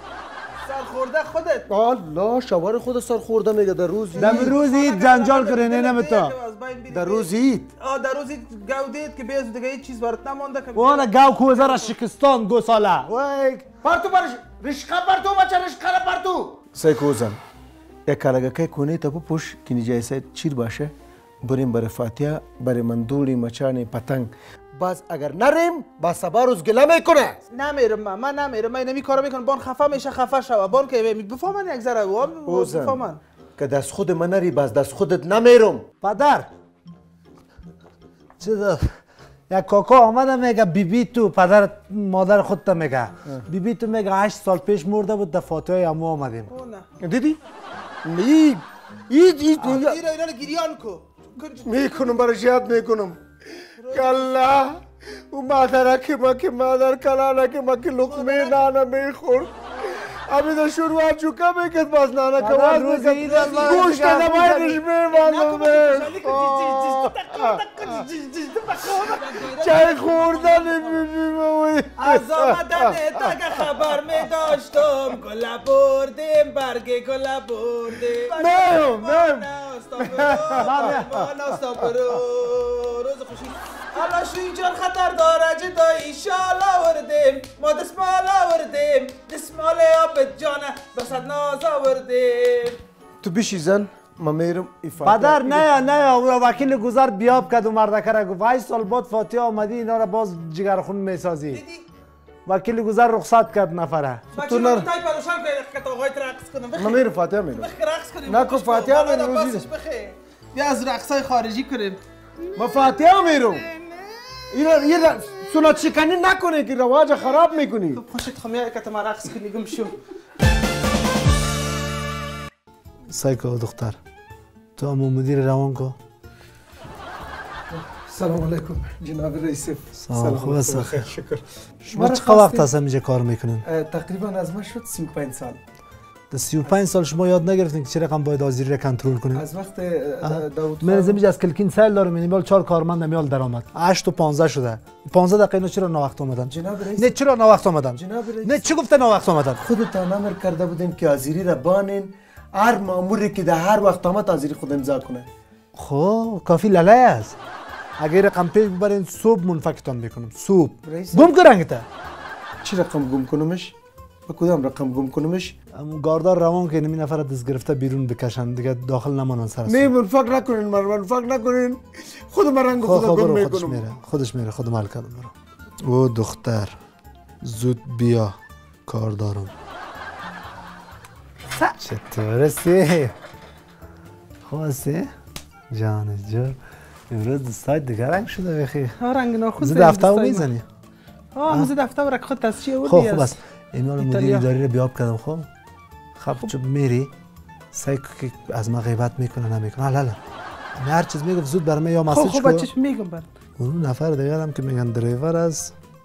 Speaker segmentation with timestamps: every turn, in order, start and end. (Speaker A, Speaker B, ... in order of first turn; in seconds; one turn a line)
Speaker A: 0.6-1.6
Speaker B: 1.7-4.5
Speaker A: 4.1-12.0
Speaker C: 4.2-6.3
Speaker B: 6.9-7.7
Speaker C: 10.8-13.7
Speaker B: 13.8-17.4
Speaker B: 18.1-27.4
Speaker A: 27.5-33.2
Speaker B: 32.5-33.1
Speaker B: 33.6-35.9
Speaker C: 36.0-36.5
Speaker C: 38.4-38.8
Speaker C: 39.5-46.5
Speaker A: 46.5-46.9
Speaker B: 47.0-47.4
Speaker B: 48.0-50.0
Speaker A: 49.6-52.2
Speaker B: 51.6-53.2
Speaker A: 53.8-54.4
Speaker B: 53.9-67.8
Speaker A: 58.0-58.6
Speaker C: 62.4-64.8
Speaker A: 63.2-63.9
Speaker A: 65.1-71.0
Speaker B: 69.4-73.0
Speaker A: 72.0-92.8
Speaker B: 78.3-79.5
Speaker B: 80.0-81.2
Speaker C: 80.6-81.1
Speaker B: 93.2-95.7
Speaker C: 95.0-101.6
Speaker A: 101.5-101.9
Speaker C: 102.5-104.3
Speaker A: 104.3-112.0
Speaker B: 104.3-104.9
Speaker B: 106.8-107.7
Speaker B: 108.3-109.7
Speaker B: 112.6-113.6
Speaker A: 113.4-114.5
Speaker B: 114.5-118.0
Speaker A: 117.9-120.0
Speaker C: 123.1-124.0
Speaker C: 124.8-126.0
Speaker B: 127.7-132.7
Speaker C: 130.0-131.0
Speaker C: 131.9-133.7
Speaker B: 133.7-135.6
Speaker C: 136.3-139.4
Speaker B: 139.3-141.2
Speaker C: 140.2-149.6
Speaker B: 146.5-147.2
Speaker B: 147.9-148.7
Speaker B: 149.6-155.3
Speaker C: 155.8-157.4
Speaker C: 158.0-161.9
Speaker B: 160.9-161.3
Speaker B: 162.6-163.7
Speaker B: 164.3-165.5
Speaker C: 165.8-169.9
Speaker B: 169.7-173.8
Speaker C: 172.8-175.3
Speaker C: 175.9-176.8
Speaker C: 177.4-178.4
Speaker C: 178.9-179.5
Speaker C: 181.8-183.1
Speaker C: 184.5-185.1
Speaker C: 185.7-186.6
Speaker C: 187.1-189.0
Speaker A: 189.0-190.5
Speaker C: 189.6-190.7
Speaker A: 191.3-193.3
Speaker C: 191.5-191.7
Speaker C: 192.8-195.5
Speaker A: 194.0-194.5
Speaker C: 196.2-197.1
Speaker C: 197.7-200.2
Speaker C: 200.8-202.7
Speaker A: 202.1-203.3
Speaker C: 203.6-205.7